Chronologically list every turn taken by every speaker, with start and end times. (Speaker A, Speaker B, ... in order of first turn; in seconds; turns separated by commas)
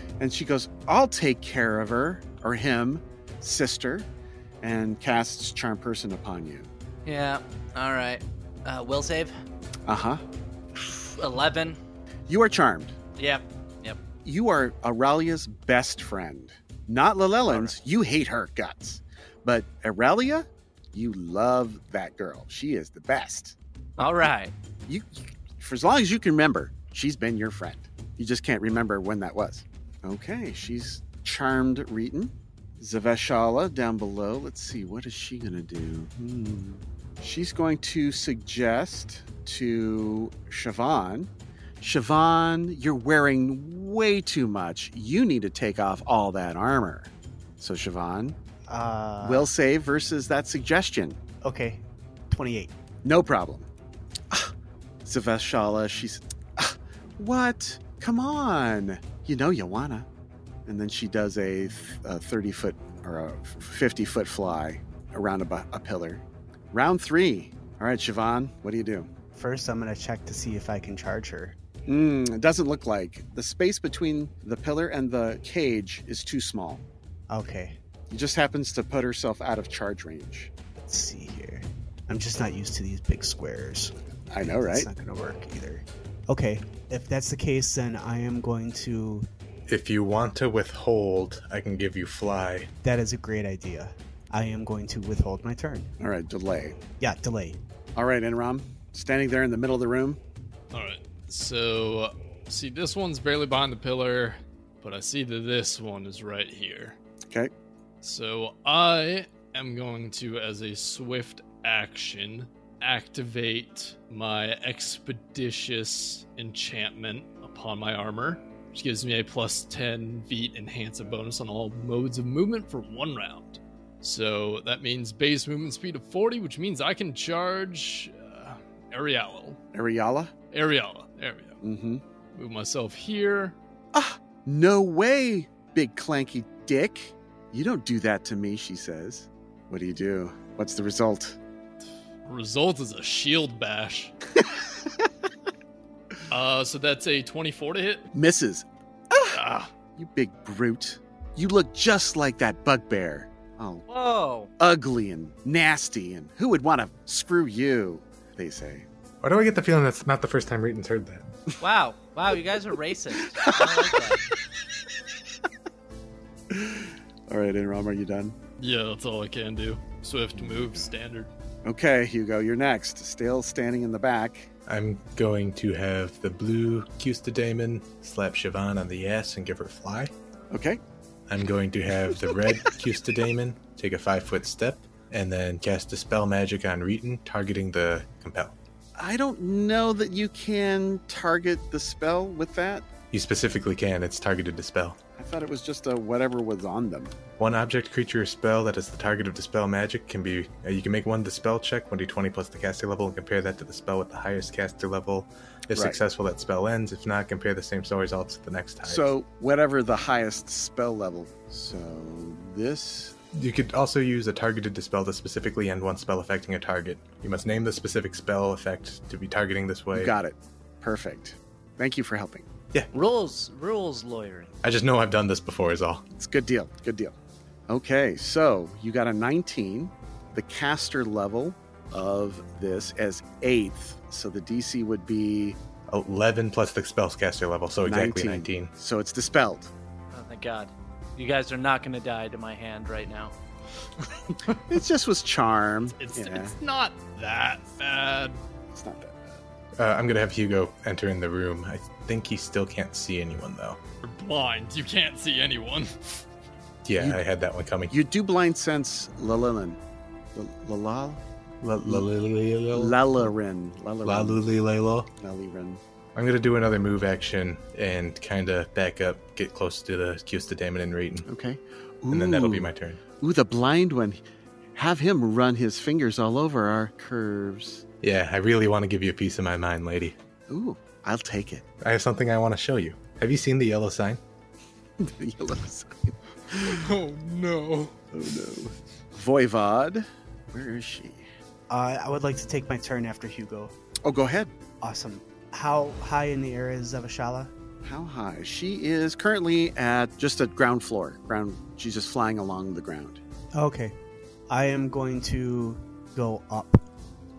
Speaker A: 0.2-4.1, Speaker A: 4.6-6.7, Speaker B: 7.0-9.4, Speaker A: 9.9-10.2, Speaker B: 10.8-11.8, Speaker A: 12.3-13.0, Speaker B: 13.2-14.0, Speaker A: 14.2-23.6, Speaker B: 17.5-17.7, Speaker B: 24.0-24.5, Speaker A: 24.9-41.3, Speaker A: 41.8-48.4, Speaker C: 48.7-49.5, Speaker A: 49.2-51.2, Speaker C: 51.4-52.7, Speaker A: 53.0-53.7, Speaker A: 55.0-60.1, Speaker A: 60.7-69.1, Speaker C: 69.3-71.5, Speaker A: 71.9-76.8, Speaker C: 77.3-77.8, Speaker A: 78.1-80.5, Speaker C: 80.8-89.3, Speaker A: 84.3-84.9, Speaker D: 89.7-92.7, Speaker C: 92.8-95.9, Speaker A: 96.0-96.8, Speaker C: 97.0-97.6, Speaker A: 98.0-100.2, Speaker E: 100.7-107.0, Speaker E: 108.0-129.6, Speaker A: 129.7-130.3, Speaker E: 130.5-131.6, Speaker A: 131.6-132.0, Speaker E: 132.3-133.6, Speaker A: 133.9-141.4, Speaker E: 142.3-144.1, Speaker E: 146.3-148.1, Speaker A: 148.1-149.4, Speaker E: 149.3-149.7, Speaker A: 150.0-153.9, Speaker B: 153.9-154.5, Speaker A: 154.6-158.9, Speaker D: 159.2-161.3, Speaker B: 161.6-164.2, Speaker A: 163.3-164.0, Speaker A: 166.5-168.4, Speaker E: 168.6-171.3, Speaker A: 170.4-170.9, Speaker A: 171.7-174.5, Speaker D: 174.7-180.1, Speaker A: 180.5-180.8, Speaker D: 181.3-188.6, Speaker A: 182.3-182.7, Speaker A: 189.0-192.9, Speaker D: 193.1-195.0, Speaker A: 195.2-197.2, Speaker D: 197.4-209.1, Speaker A: 208.8-213.2, Speaker D: 213.3-220.2, Speaker A: 219.9-222.5, Speaker B: 222.9-224.5, Speaker D: 224.6-226.1, Speaker A: 226.1-227.2, Speaker A: 227.7-235.6, Speaker D: 235.9-238.7, Speaker A: 237.8-239.7, Speaker B: 240.1-243.3, Speaker A: 244.7-246.6, Speaker E: 245.9-248.4, Speaker A: 248.7-249.4, Speaker D: 249.8-253.8, Speaker E: 254.0-256.2, Speaker D: 256.9-257.9, Speaker A: 257.9-259.8, Speaker A: 260.4-261.2, Speaker D: 261.6-263.0, Speaker A: 262.7-264.4, Speaker D: 264.0-265.1, Speaker A: 265.2-265.8, Speaker D: 266.1-271.3, Speaker A: 271.3-274.2, Speaker D: 272.1-273.0, Speaker A: 274.8-277.9, Speaker D: 278.0-280.2, Speaker A: 280.5-281.7, Speaker D: 281.8-284.2, Speaker A: 285.0-286.9, Speaker E: 286.5-288.0, Speaker A: 288.1-291.3, Speaker C: 291.7-293.7, Speaker A: 294.0-294.5, Speaker C: 294.8-297.5, Speaker A: 297.8-303.2, Speaker C: 303.6-304.0, Speaker C: 304.5-306.8